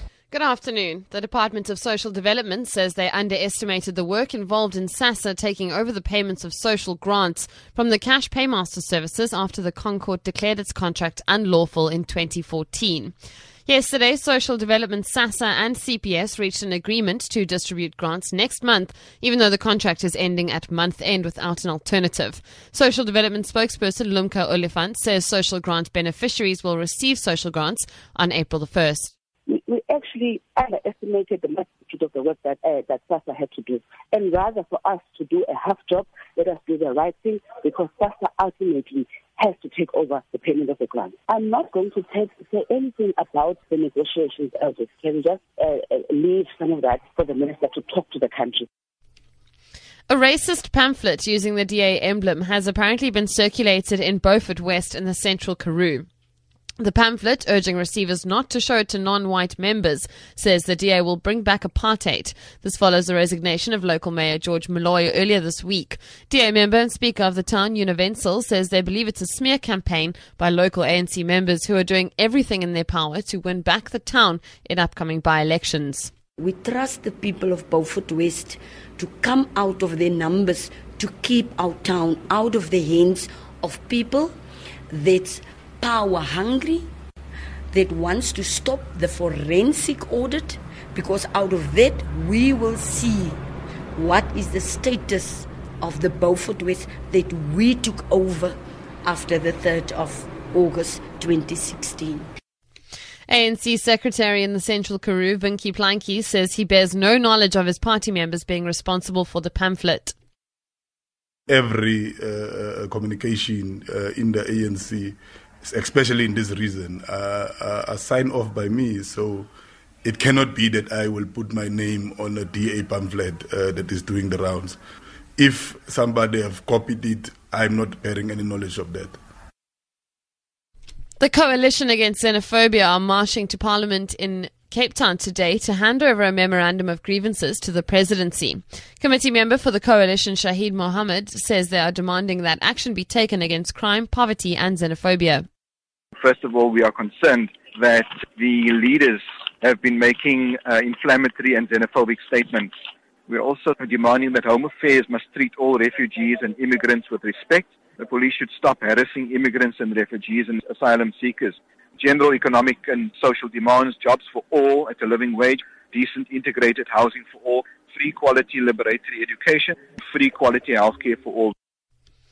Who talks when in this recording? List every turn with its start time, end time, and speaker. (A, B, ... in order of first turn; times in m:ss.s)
0:00.3-0:29.1 A
0:29.5-0:48.6 B
0:50.1-0:56.1 A
0:56.8-1:16.1 A
1:16.4-1:24.3 C
1:24.9-1:26.9 C
1:27.7-1:33.4 C
1:33.9-1:42.3 C
1:43.3-1:50.1 A
1:51.5-1:59.5 D
2:00.0-2:04.8 D
2:05.4-2:09.2 D
2:11.2-2:25.5 A
2:26.2-2:32.7 E
2:33.3-2:51.5 E